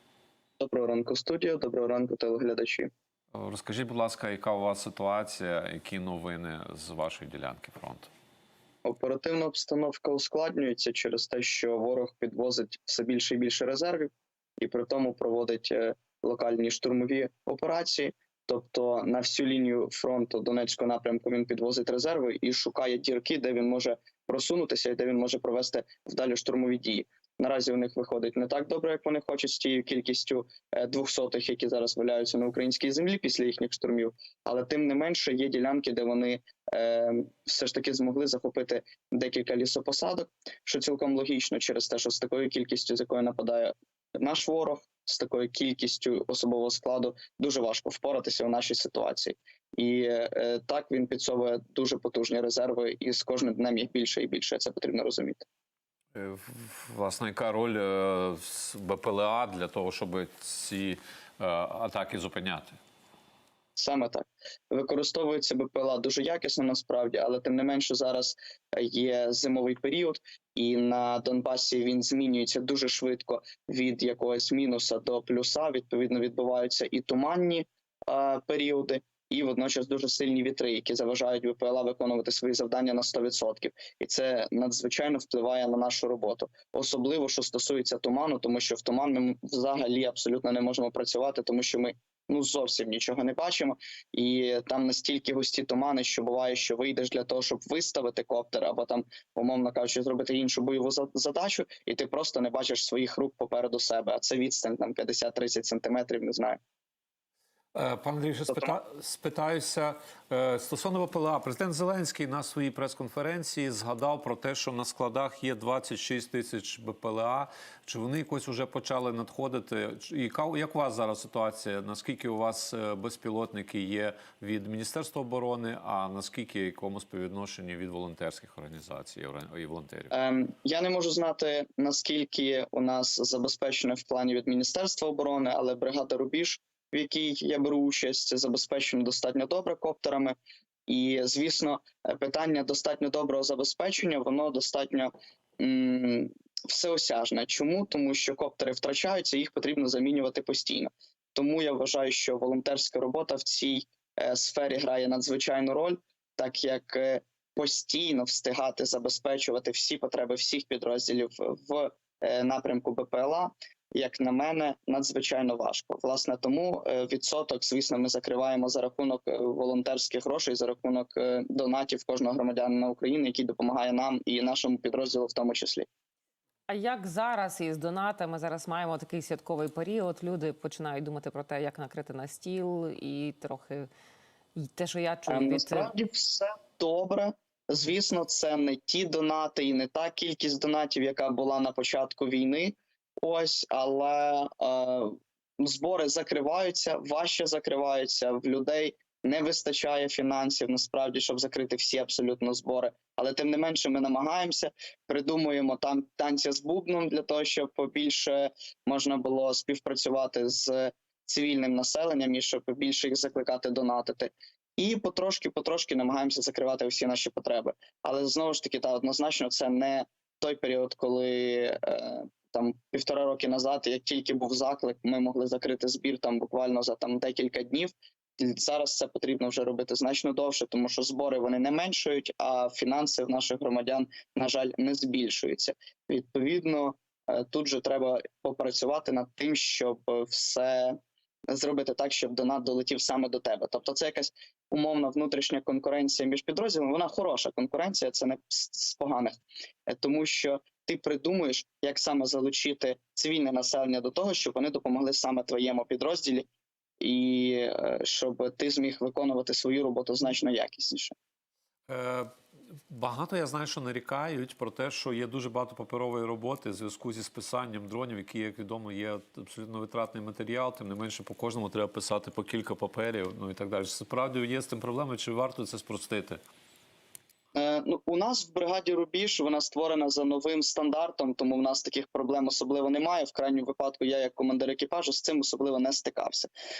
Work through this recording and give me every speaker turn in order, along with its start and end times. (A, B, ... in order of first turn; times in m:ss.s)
0:00.6-0:02.9 A
0:03.3-0:08.1 B
0:08.8-0:55.4 A
0:56.2-1:02.8 B
1:03.8-1:46.6 A
1:47.8-2:10.1 B
1:48.5-1:48.8 A
2:10.1-2:20.4 A
2:20.9-2:55.9 A
2:56.7-3:03.9 C
3:04.6-3:05.9 C
3:05.3-4:01.0 A
4:01.5-4:16.5 A
4:17.0-4:21.1 A
4:21.9-4:22.3 B
4:22.9-4:36.4 B
4:37.6-4:46.5 A